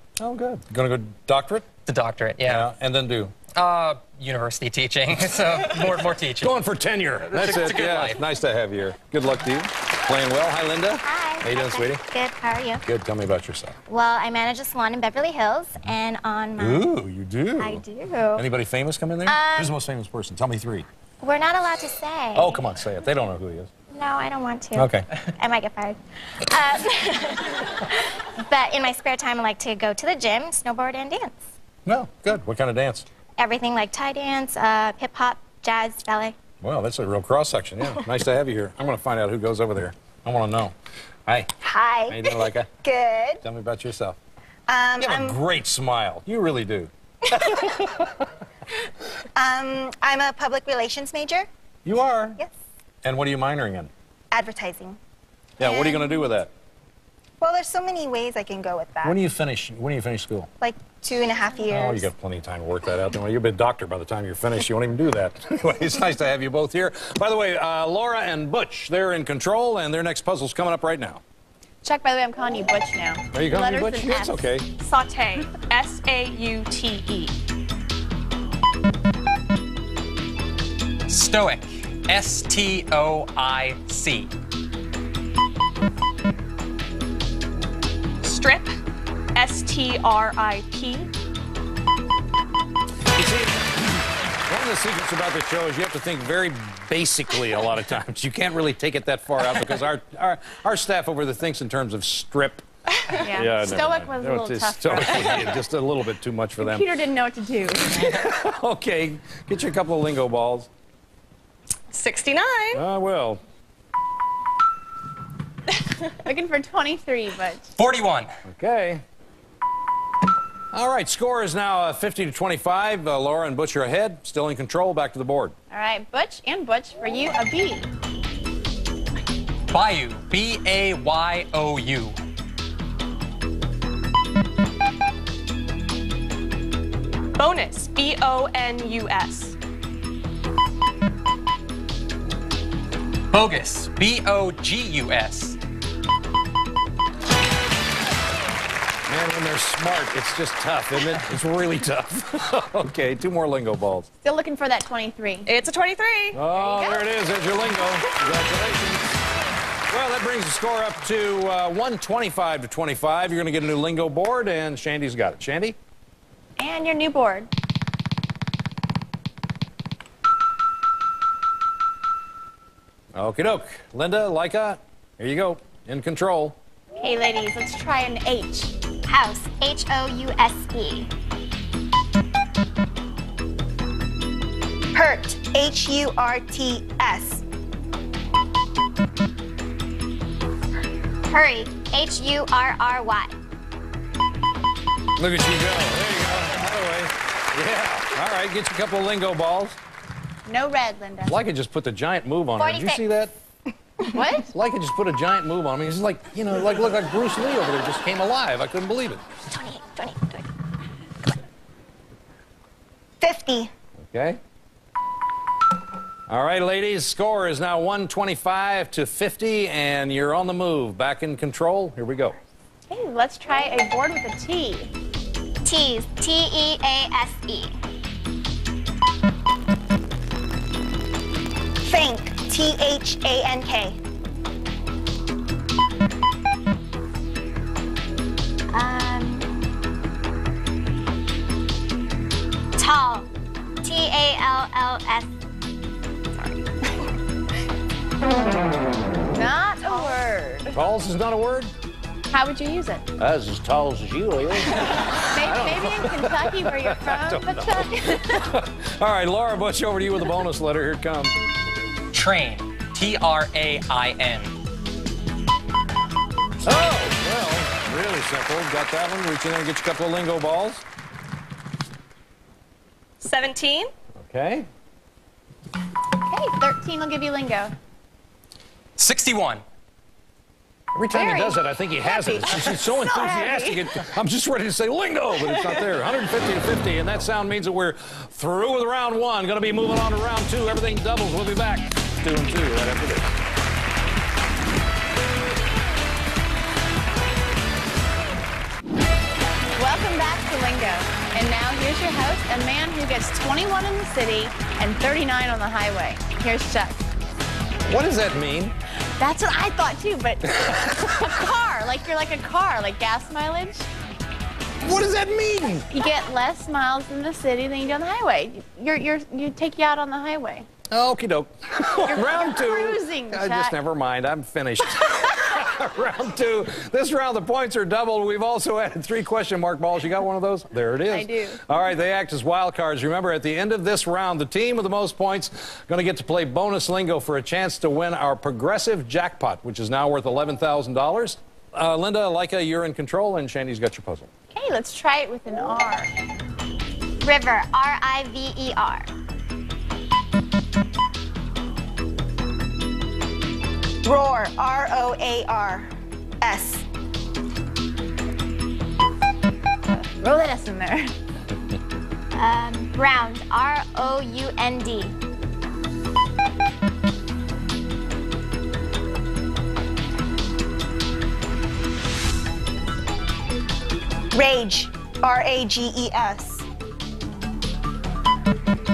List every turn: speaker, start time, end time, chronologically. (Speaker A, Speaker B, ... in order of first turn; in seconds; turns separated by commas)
Speaker A: 0.2-1.7, Speaker B: 1.9-2.7, Speaker A: 2.5-3.3, Speaker B: 3.5-6.5, Speaker A: 6.4-12.0, Speaker B: 7.3-8.2, Speaker C: 11.0-12.8, Speaker A: 12.8-13.8, Speaker C: 13.9-16.9, Speaker A: 16.6-17.8, Speaker C: 17.6-18.5, Speaker A: 18.4-20.9, Speaker C: 19.3-19.7, Speaker C: 21.2-22.6, Speaker A: 22.4-23.7, Speaker C: 23.9-31.4, Speaker A: 24.8-25.1, Speaker A: 31.9-33.1, Speaker C: 33.4-36.4, Speaker A: 36.6-40.8, Speaker D: 41.6-43.4, Speaker A: 42.1-42.7, Speaker A: 43.4-44.2, Speaker D: 44.7-45.4, Speaker A: 45.0-48.1, Speaker D: 49.4-51.5, Speaker A: 51.9-52.4, Speaker A: 53.0-53.9, Speaker D: 54.3-55.0, Speaker A: 55.6-56.5, Speaker D: 55.6-56.1, Speaker D: 57.4-59.2, Speaker A: 59.0-60.5, Speaker D: 60.6-62.1, Speaker A: 61.7-71.2, Speaker E: 71.8-74.5, Speaker A: 73.3-74.7, Speaker F: 74.8-77.3, Speaker B: 81.1-84.3, Speaker F: 88.2-88.7, Speaker F: 89.3-91.1, Speaker A: 93.1-106.9, Speaker E: 103.2-105.6, Speaker E: 106.6-108.2, Speaker A: 108.0-110.7, Speaker F: 111.9-112.8, Speaker A: 112.7-113.4, Speaker E: 116.1-117.7, Speaker B: 117.8-118.3, Speaker A: 118.5-119.0, Speaker A: 120.7-125.5, Speaker E: 125.7-127.9, Speaker B: 129.7-132.2, Speaker F: 137.4-139.6, Speaker B: 143.3-145.6, Speaker A: 149.1-154.1, Speaker E: 154.2-155.5, Speaker F: 155.5-156.4, Speaker A: 156.3-159.1, Speaker E: 156.5-157.1, Speaker A: 159.9-165.8, Speaker E: 166.6-167.5, Speaker A: 173.2-176.6, Speaker E: 177.0-178.7, Speaker C: 179.1-181.1, Speaker D: 184.9-187.4, Speaker C: 191.3-193.3, Speaker A: 195.2-199.8, Speaker E: 200.5-201.4, Speaker A: 201.3-203.3, Speaker C: 202.6-203.0, Speaker E: 204.1-204.5, Speaker A: 204.5-209.2, Speaker C: 209.4-210.5, Speaker D: 213.2-213.7, Speaker A: 214.1-214.4, Speaker A: 216.3-222.4, Speaker E: 222.9-224.9, Speaker C: 225.6-227.8, Speaker D: 231.8-234.0, Speaker C: 238.7-239.5, Speaker C: 242.8-243.3, Speaker C: 243.8-245.3, Speaker F: 246.3-247.1, Speaker E: 249.3-250.8, Speaker F: 249.9-250.2, Speaker A: 250.8-251.7, Speaker E: 252.3-253.0, Speaker A: 253.2-261.4, Speaker E: 255.0-258.5, Speaker B: 262.1-264.6, Speaker A: 266.6-270.8, Speaker F: 273.2-273.9, Speaker A: 274.2-274.7, Speaker E: 276.2-277.7, Speaker B: 279.0-279.6, Speaker A: 280.9-293.3, Speaker E: 281.2-281.5, Speaker E: 282.2-283.8, Speaker E: 299.8-307.0, Speaker A: 307.9-308.8, Speaker E: 309.2-313.9, Speaker A: 310.5-311.3, Speaker A: 314.8-315.9, Speaker E: 315.9-320.7, Speaker A: 320.9-344.3, Speaker E: 322.0-323.8, Speaker E: 331.1-331.6, Speaker E: 344.5-346.1, Speaker C: 347.2-349.1, Speaker D: 354.0-355.9, Speaker D: 356.4-356.9, Speaker E: 359.9-361.1, Speaker C: 362.3-365.2, Speaker D: 374.3-376.6